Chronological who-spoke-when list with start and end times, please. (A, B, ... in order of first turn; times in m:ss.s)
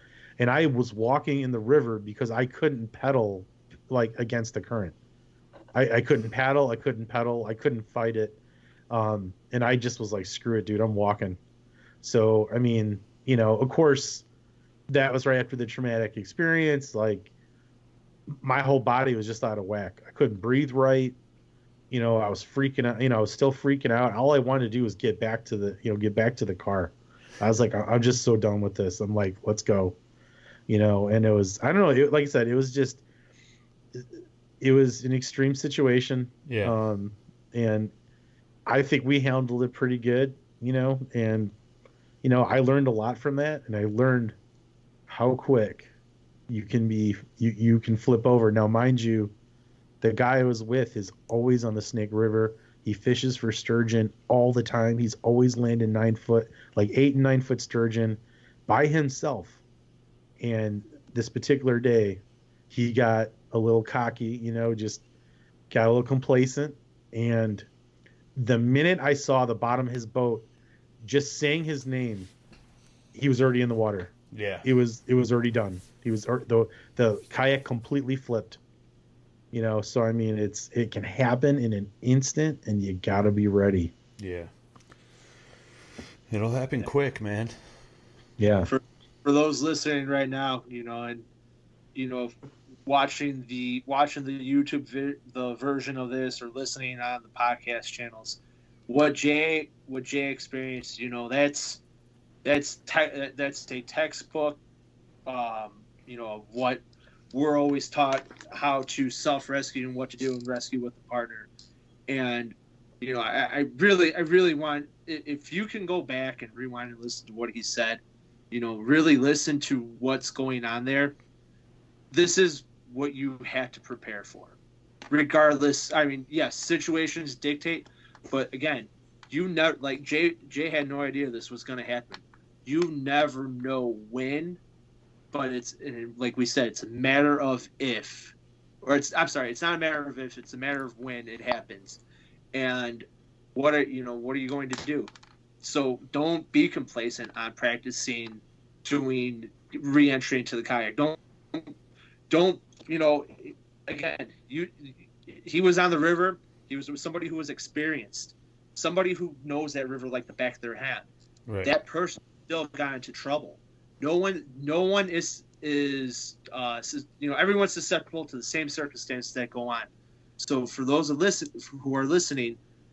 0:00.4-0:05.0 A
0:05.7-0:08.4 A
0:08.9-0:11.4 A
0:12.0-0:14.2 A
0:14.9-0:17.3 A
0:18.3-0:21.2 A
0:21.9-0:30.0 A
0:30.7-0:33.0 A
0:34.6-0:37.9 A
0:36.5-0:36.8 B
0:38.7-0:41.5 A
0:42.2-0:44.4 A
0:45.1-0:45.9 A
0:46.5-0:49.3 A
0:50.0-0:59.6 A
1:00.4-1:05.0 A
1:05.7-1:07.7 A
1:08.4-1:10.5 A
1:11.0-1:12.3 A
1:13.1-1:18.6 A
1:14.3-1:14.7 B
1:19.5-1:23.9 A
1:24.2-1:24.5 B
1:26.3-1:27.6 B
1:28.4-1:28.7 A
1:28.7-1:31.2 C
1:32.0-1:41.8 C
1:42.4-1:44.6 C
1:45.3-1:46.8 C
1:47.3-1:51.5 C
1:52.1-2:01.2 C
2:02.1-2:04.6 C
2:05.1-2:14.6 C
2:15.3-2:22.0 C
2:22.5-2:25.1 C
2:25.6-2:31.7 C
2:32.3-2:41.1 C
2:41.6-2:52.6 C